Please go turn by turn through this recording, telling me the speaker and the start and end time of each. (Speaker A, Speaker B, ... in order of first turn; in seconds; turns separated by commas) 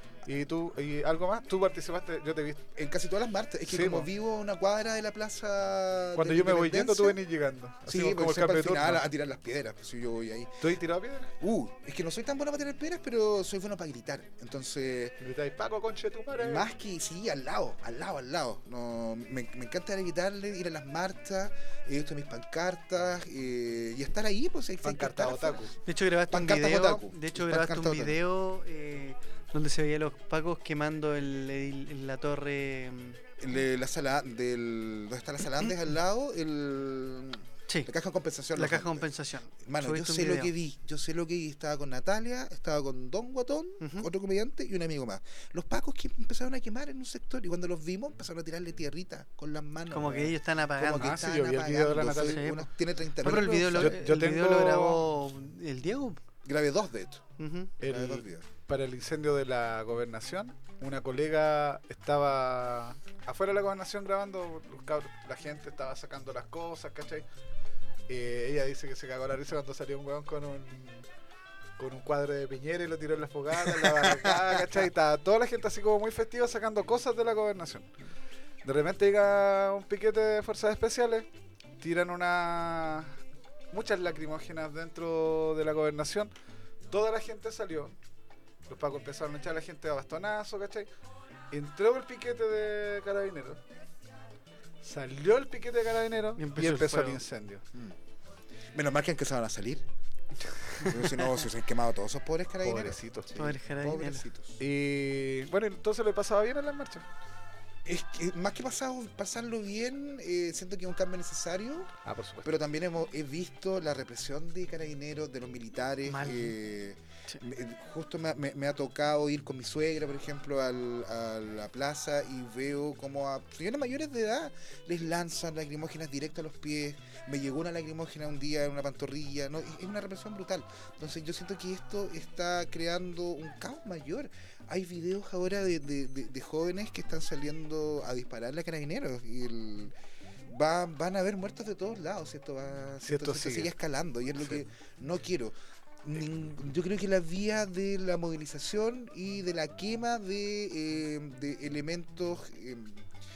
Speaker A: 0.2-2.6, Speaker B: 2.8-7.2, Speaker A: 3.7-4.1, Speaker A: 6.2-9.1, Speaker B: 7.9-10.7, Speaker A: 10.6-11.3, Speaker B: 11.4-15.2, Speaker A: 15.2-16.7, Speaker B: 16.4-25.7, Speaker A: 24.8-25.7, Speaker C: 25.9-33.2, Speaker B: 26.3-28.2, Speaker B: 33.4-39.1, Speaker C: 38.5-40.5, Speaker B: 39.6-54.0, Speaker C: 43.8-44.1, Speaker C: 49.9-51.2, Speaker A: 51.0-52.5, Speaker C: 52.1-52.6, Speaker C: 53.2-56.2, Speaker A: 53.7-55.0, Speaker B: 56.5-57.2, Speaker C: 57.4-57.7, Speaker A: 57.8-67.2, Speaker B: 57.8-58.5, Speaker A: 68.1-71.1, Speaker A: 71.8-77.9, Speaker B: 73.6-74.7, Speaker A: 78.6-81.3, Speaker A: 81.8-83.2, Speaker A: 83.7-86.3, Speaker A: 86.9-88.0, Speaker A: 88.7-90.9, Speaker A: 91.5-93.6, Speaker A: 94.8-97.6, Speaker C: 96.4-97.2, Speaker B: 98.7-99.8, Speaker B: 100.8-104.6, Speaker A: 102.6-103.3, Speaker C: 103.4-104.3, Speaker A: 104.6-107.0, Speaker B: 107.8-111.9, Speaker A: 112.0-112.5, Speaker B: 112.4-139.9, Speaker C: 116.1-116.6, Speaker B: 140.5-153.1, Speaker A: 143.0-143.7